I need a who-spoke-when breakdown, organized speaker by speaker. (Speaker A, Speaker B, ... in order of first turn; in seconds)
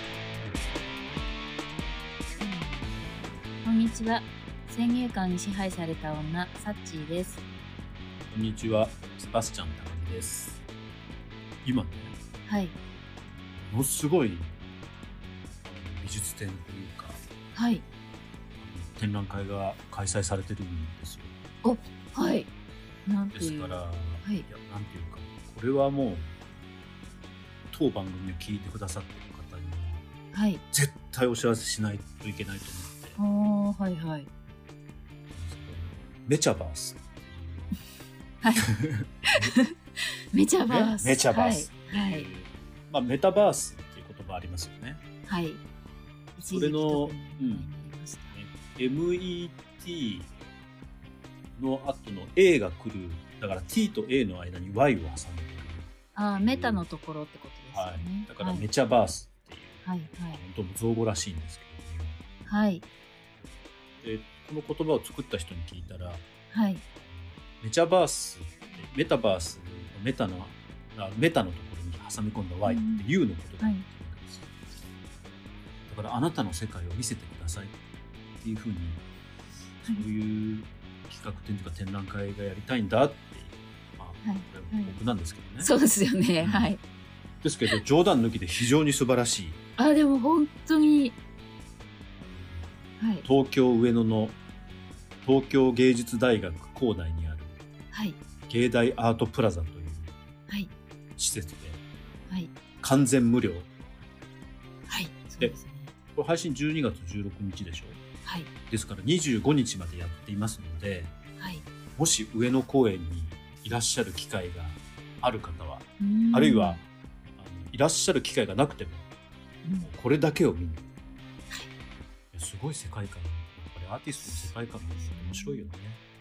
Speaker A: 2.4-2.9, 3.6-7.4, 12.5-12.8, 17.5-17.8, 21.6-22.5, 23.1-24.5, 30.3-30.6, 33.2-34.3, 38.4-38.7, 39.3-39.7, 40.3-42.3, 45.3-45.6, 46.4-48.4, 56.1-58.7, 59.8-60.4, 62.5-62.8, 66.5-66.8, 72.6-73.0, 73.6-73.8, 84.2-85.0, 85.6-86.8, 89.8-91.2, 93.0-93.2, 97.9-98.2, 104.9-105.9, 108.2-108.5, 111.4-111.6, 116.0-116.8, 119.6-119.9, 125.0-125.7
Speaker B: 8.3-10.6, 11.6-12.2, 13.6-14.6, 15.6-17.2, 18.6-21.3, 23.3-26.3, 27.7-30.1, 30.7-33.2, 35.3-37.8, 38.5-39.6, 40.7-45.0, 46.4-47.7, 48.3-50.3, 51.5-56.9, 57.7-62.2, 64.0-66.2, 67.0-74.7, 75.9-77.7, 78.4-79.0, 79.8-85.7, 86.4-86.7, 87.4-89.6, 92.2-92.7, 93.2-94.4, 95.2-97.6, 98.5-100.2, 101.2-101.8, 102.8-103.7, 106.1-108.0, 108.7-111.2, 112.0-116.8, 117.3-119.1, 119.8-120.9, 122.3-126.0